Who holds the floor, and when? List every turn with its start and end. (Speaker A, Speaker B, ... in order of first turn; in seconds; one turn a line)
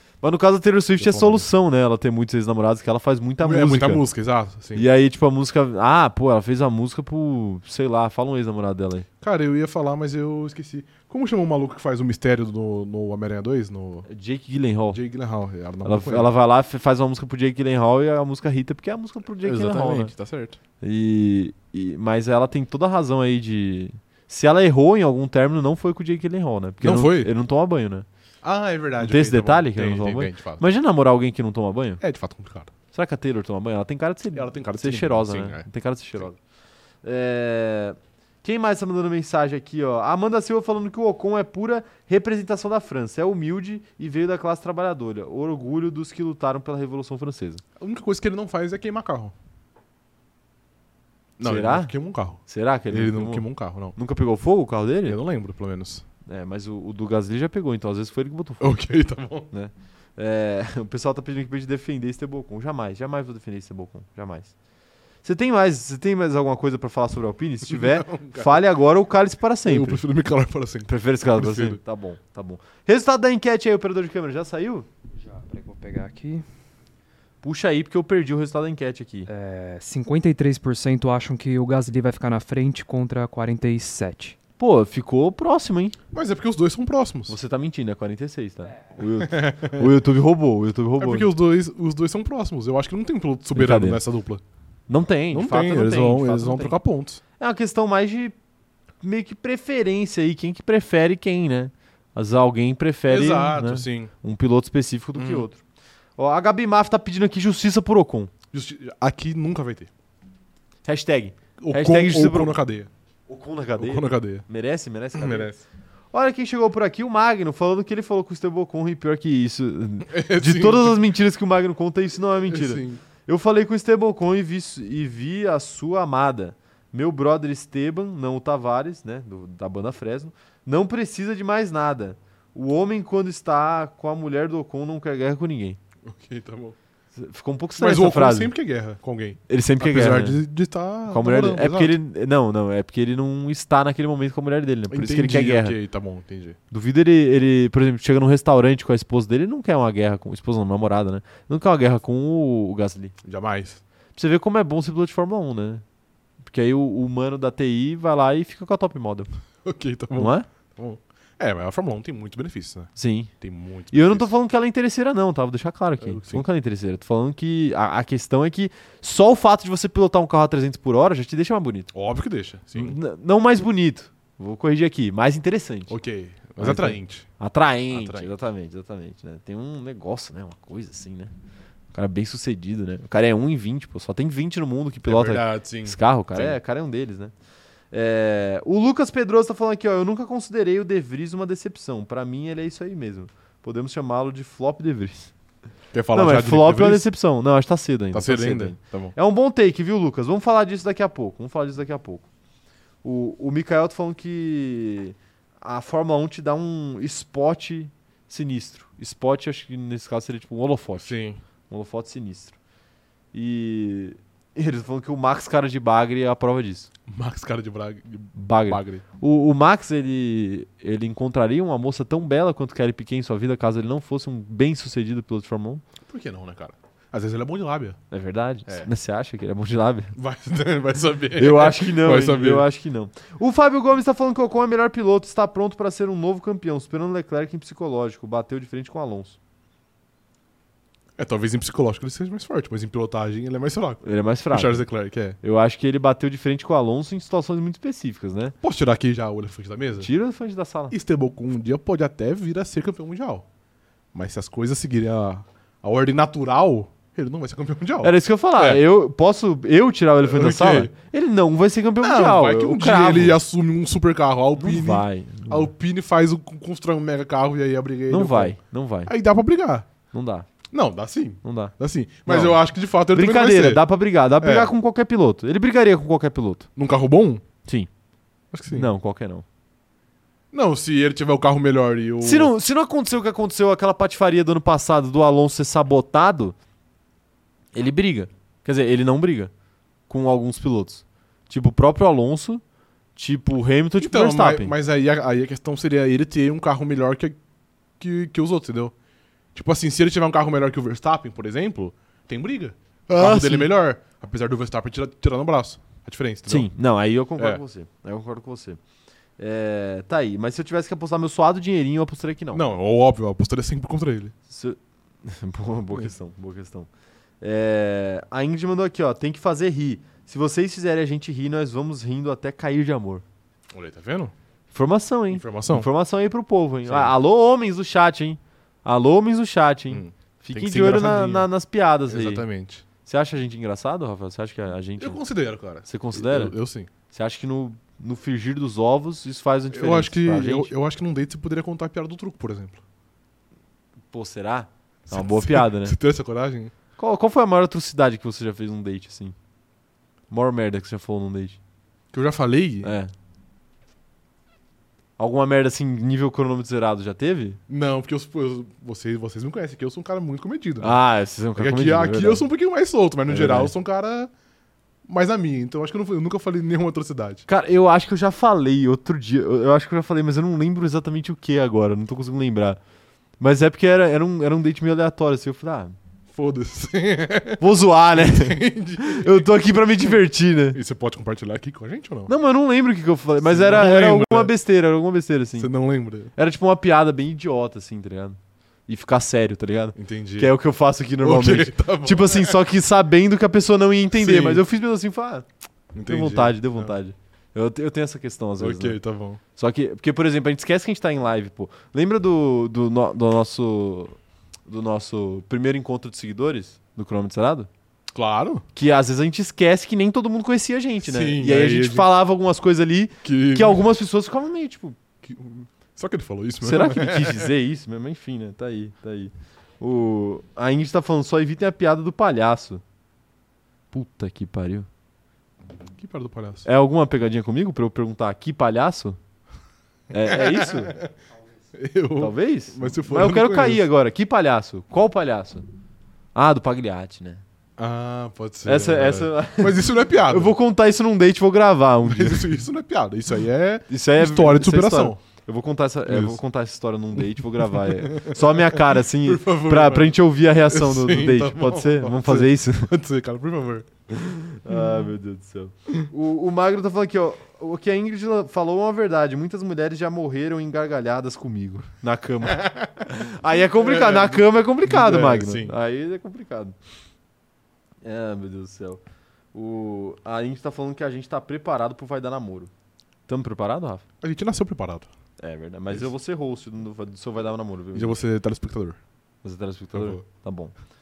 Speaker A: 0.2-4.0
Speaker B: 1.0-1.5
Speaker B: 3.4-4.8
Speaker A: 4.7-9.1
Speaker B: 9.2-14.1
Speaker A: 14.1-15.0
Speaker B: 14.9-16.3
Speaker A: 15.8-20.1
Speaker B: 19.4-20.6
Speaker A: 20.8-28.1
Speaker B: 26.8-27.3
Speaker B: 28.4-30.6
Speaker A: 29.0-32.0
Speaker B: 32.0-32.7
Speaker A: 32.9-36.4
Speaker B: 34.3-35.6
Speaker A: 37.0-47.6
Speaker B: 47.8-49.3
Speaker B: 51.4-53.9
Speaker A: 51.4-55.2
Speaker B: 55.0-56.0
Speaker A: 56.2-58.8
Speaker B: 58.6-59.5
Speaker A: 59.5-64.5
Speaker A: 65.2-70.0
Speaker B: 67.7-68.6
Speaker B: 69.7-71.8
Speaker A: 70.8-74.8
Speaker C: 75.2-76.4
Speaker A: 77.4-79.3
Speaker C: 79.3-84.3
Speaker A: 84.6-86.0
Speaker B: 86.1-87.4
Speaker A: 87.3-91.3
Speaker B: 89.2-89.9
Speaker B: 91.0-94.4
Speaker A: 93.5-94.0
Speaker A: 94.9-96.8
Speaker B: 95.3-97.2
Speaker A: 97.4-98.3
Speaker A: 99.0-105.6
Speaker B: 103.1-104.1
Speaker B: 105.2-105.5
Speaker A: 106.2-108.3
Speaker B: 108.5-109.9
Speaker A: 110.8-112.6
Speaker B: 111.6-112.9
Speaker A: 113.3-115.5
Speaker B: 113.8-114.4
Speaker B: 115.1-115.6
Speaker A: 116.1-135.8
Speaker B: 120.1-121.0
Speaker B: 122.5-123.0
Speaker B: 136.0-136.8
Speaker A: 137.1-138.5
Speaker B: 137.8-141.9
Speaker A: 139.5-140.4
Speaker A: 141.1-145.8
Speaker B: 144.9-146.6
Speaker A: 146.7-153.1
Speaker B: 153.2-153.8
Speaker A: 154.2-155.8
Speaker A: 156.4-159.3
Speaker B: 159.6-164.3
Speaker A: 160.1-160.5
Speaker A: 162.9-163.3
Speaker A: 163.9-171.9
Speaker B: 166.0-166.4
Speaker B: 171.9-172.9
Speaker A: 172.7-175.9
Speaker B: 175.9-177.3
Speaker A: 176.6-181.3
Speaker B: 177.9-178.3
Speaker A: 181.9-187.3
Speaker B: 185.0-186.6
Speaker A: 187.9-195.3
Speaker B: 195.9-197.1
Speaker A: 196.1-202.2
Speaker B: 198.1-199.1
Speaker A: 203.0-211.2
Speaker B: 211.0-211.4
Speaker A: 211.7-212.5
Speaker A: 213.3-216.9
Speaker B: 217.1-219.0
Speaker A: 218.3-225.8
Speaker B: 226.0-228.0
Speaker A: 228.1-230.1
Speaker B: 230.1-232.7
Speaker A: 231.3-239.4
Speaker B: 241.2-245.4
Speaker A: 244.0-244.8
Speaker A: 245.4-248.6
Speaker B: 248.6-250.1
Speaker A: 250.0-250.9
Speaker B: 250.9-253.4
Speaker B: 254.1-258.8
Speaker A: 258.0-263.4
Speaker B: 260.2-260.9
Speaker B: 262.0-269.9
Speaker A: 264.6-265.7
Speaker A: 268.1-269.1
Speaker A: 270.1-270.5
Speaker B: 270.7-273.8
Speaker A: 271.4-271.7
Speaker A: 272.2-276.7
Speaker B: 274.4-274.7
Speaker B: 276.8-277.4
Speaker B: 278.5-278.9
Speaker A: 278.7-279.4
Speaker B: 280.5-282.5
Speaker A: 282.2-286.5
Speaker A: 287.7-289.5
Speaker A: 290.1-292.6
Speaker A: 293.1-294.7
Speaker B: 294.0-297.4
Speaker B: 298.0-298.9
Speaker B: 299.5-306.7
Speaker A: 303.1-303.7
Speaker A: 306.5-308.8
Speaker A: 309.4-312.6
Speaker B: 312.5-314.3
Speaker A: 314.5-316.9
Speaker A: 317.4-323.2
Speaker B: 323.7-324.3
Speaker A: 324.7-332.4
Speaker B: 325.3-325.9
Speaker B: 326.9-327.1
Speaker B: 329.9-331.5
Speaker B: 332.1-332.8
Speaker A: 333.0-335.2
Speaker B: 335.0-336.9
Speaker A: 335.8-336.6
Speaker A: 337.1-340.7
Speaker B: 339.7-342.8
Speaker A: 344.1-345.9
Speaker B: 345.1-346.7
Speaker A: 347.0-349.3
Speaker A: 350.3-351.6
Speaker B: 352.1-352.9
Speaker A: 352.8-353.1
Speaker A: 355.2-357.6
Speaker B: 357.7-361.0
Speaker A: 360.8-362.4
Speaker B: 361.6-364.3
Speaker A: 363.3-363.7
Speaker B: 365.1-367.4
Speaker A: 367.5-372.8
Speaker A: 373.4-375.9
Speaker B: 376.3-377.6
Speaker A: 377.6-380.8
Speaker B: 378.1-379.5
Speaker B: 380.7-382.3
Speaker A: 382.3-385.7
Speaker B: 383.4-384.5
Speaker B: 385.6-386.3
Speaker A: 386.3-395.4
Speaker B: 389.9-390.5
Speaker B: 391.2-392.6
Speaker B: 394.1-394.6
Speaker B: 395.9-397.0
Speaker A: 396.0-399.0
Speaker B: 398.6-399.4
Speaker A: 399.6-404.1
Speaker A: 404.7-407.7
Speaker B: 408.1-408.6
Speaker A: 408.7-415.0
Speaker B: 411.0-412.1
Speaker B: 413.2-413.8
Speaker B: 415.2-417.5
Speaker A: 416.6-422.8
Speaker A: 423.9-424.9
Speaker B: 426.0-426.7
Speaker A: 426.6-429.2
Speaker A: 430.1-430.9
Speaker B: 430.2-431.1
Speaker B: 431.7-433.9
Speaker A: 432.2-435.6
Speaker A: 436.3-437.4
Speaker B: 437.8-440.5
Speaker A: 438.6-442.6
Speaker B: 442.1-445.2
Speaker A: 443.9-452.9
Speaker B: 446.1-446.4
Speaker B: 447.6-453.9
Speaker A: 454.2-466.8
Speaker B: 454.7-455.0
Speaker B: 462.4-463.0
Speaker B: 463.7-465.7
Speaker A: 468.0-469.0
Speaker A: 469.5-472.7
Speaker A: 473.3-474.0
Speaker B: 474.2-475.1
Speaker A: 475.4-478.2
Speaker B: 477.9-479.0
Speaker A: 479.4-480.7
Speaker B: 479.9-480.2